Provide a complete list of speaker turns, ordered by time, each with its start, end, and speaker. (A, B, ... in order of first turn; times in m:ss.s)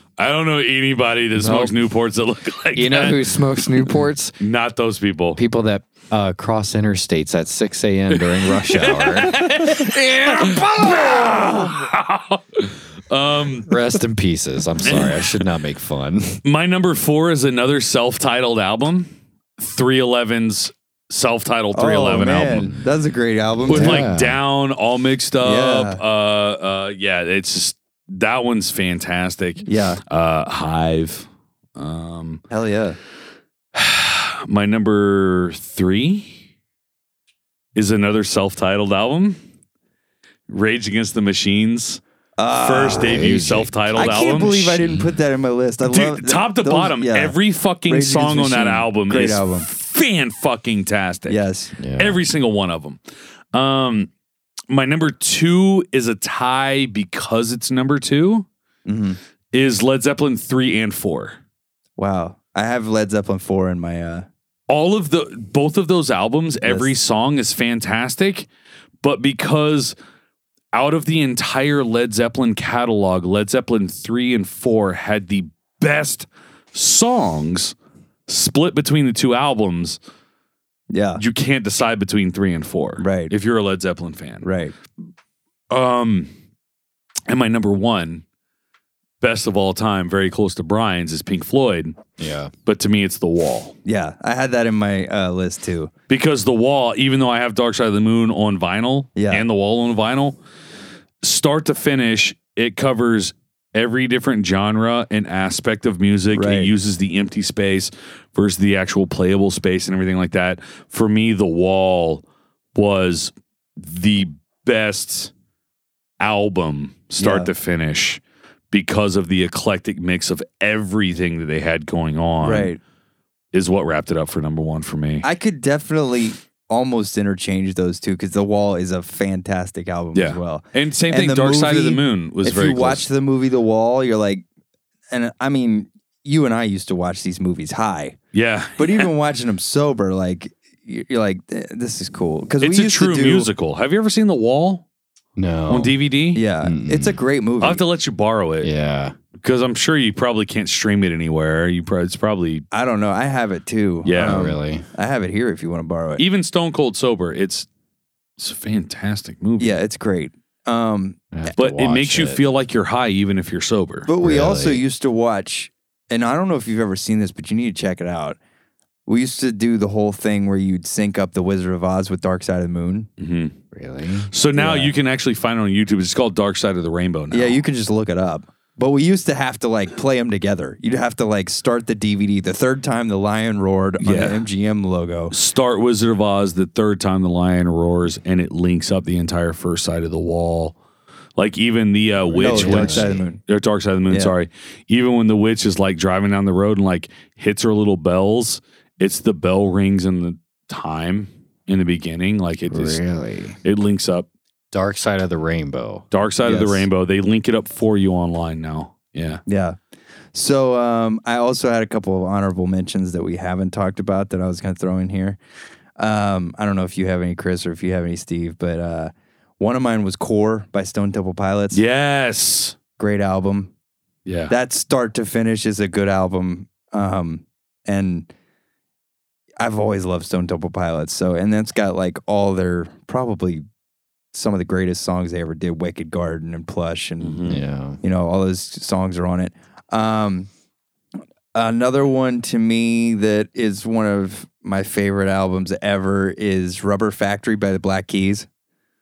0:00.2-0:03.2 A
0:01.4-0:01.7 B
0:02.7-0:04.3 B
0:04.4-0:05.4 A
0:05.4-0:11.7 B
0:08.1-0:13.7 A
0:13.7-0:16.4 B
0:14.8-0:15.4 A
0:16.4-0:22.7 A
0:21.7-0:24.0 C
0:23.7-0:24.4 B
0:23.7-0:32.4 A
0:25.4-0:26.0 C
0:29.6-0:30.0 C
0:32.5-0:33.0 C
0:33.7-0:36.4 A
0:37.7-0:39.4 A
0:40.5-0:42.0 A
0:42.4-0:43.1 C
0:42.6-0:44.8 A
0:42.9-0:44.2 B
0:44.0-0:47.3 C
0:44.8-0:45.1 B
0:45.8-0:51.4 A
0:47.9-0:49.7 C
0:51.3-0:51.7 C
0:51.8-0:52.2 B
0:52.0-0:53.0 A
0:53.5-0:54.1 A
0:54.7-0:58.4 A
0:58.8-0:59.2 C
0:59.5-1:01.4 A
1:02.0-1:04.3 C
1:04.7-1:08.4 A
1:06.6-1:06.9 C
1:09.0-1:09.9 A
1:10.7-1:17.7 A
1:18.3-1:20.0 A
1:20.9-1:21.2 C
1:21.2-1:24.5 A
1:23.0-1:23.3 C
1:24.4-1:24.7 C
1:25.7-1:26.3 A
1:27.3-1:28.2 A
1:29.2-1:32.0 A
1:32.2-1:32.5 B
1:32.6-1:33.7 A
1:33.8-1:35.9 C
1:36.1-1:40.4 A
1:39.2-1:39.4 C
1:41.2-1:52.2 A
1:46.3-1:46.7 C
1:52.7-1:55.3 A
1:56.2-1:58.2 A
1:57.2-1:57.5 C
1:58.7-2:02.7 A
2:02.4-2:02.8 C
2:03.5-2:05.2 A
2:05.2-2:14.4 C
2:10.1-2:13.0 A
2:15.1-2:18.2 C
2:18.3-2:19.1 A
2:18.8-2:23.5 C
2:22.6-2:24.8 A
2:25.4-2:25.9 B
2:25.7-2:26.4 A
2:26.3-2:27.8 C
2:26.6-2:27.2 B
2:27.6-2:28.7 A
2:28.6-2:29.2 B
2:29.4-2:32.6 A
2:32.7-2:36.2 C
2:34.0-2:34.4 A
2:34.2-2:34.9 B
2:36.2-2:37.7 A
2:38.4-2:39.8 A
2:39.6-2:41.2 C
2:41.3-2:42.4 B
2:41.6-2:44.1 A
2:44.0-2:48.4 C
2:44.2-2:44.8 B
2:49.1-2:53.1 C
2:53.2-2:53.5 A
2:53.7-2:54.3 B
2:54.3-2:57.6 A
2:54.5-2:54.9 C
2:57.3-3:05.3 C
3:04.0-3:04.4 A
3:05.3-3:10.8 A
3:11.4-3:23.0 A
3:12.2-3:13.2 B
3:12.4-3:13.4 C
3:22.7-3:23.6 B
3:23.6-3:24.3 A
3:24.7-3:26.0 B
3:26.1-3:29.4 A
3:26.4-3:26.8 C
3:29.5-3:29.8 C
3:30.3-3:35.4 C
3:36.0-3:41.8 C
3:41.7-3:42.8 A
3:43.0-3:43.7 C
3:44.2-3:44.5 A
3:44.5-3:48.3 C
3:49.6-3:53.6 C
3:54.3-4:00.5 C
3:57.2-3:57.6 A
3:57.5-3:58.0 B
4:01.5-4:08.5 C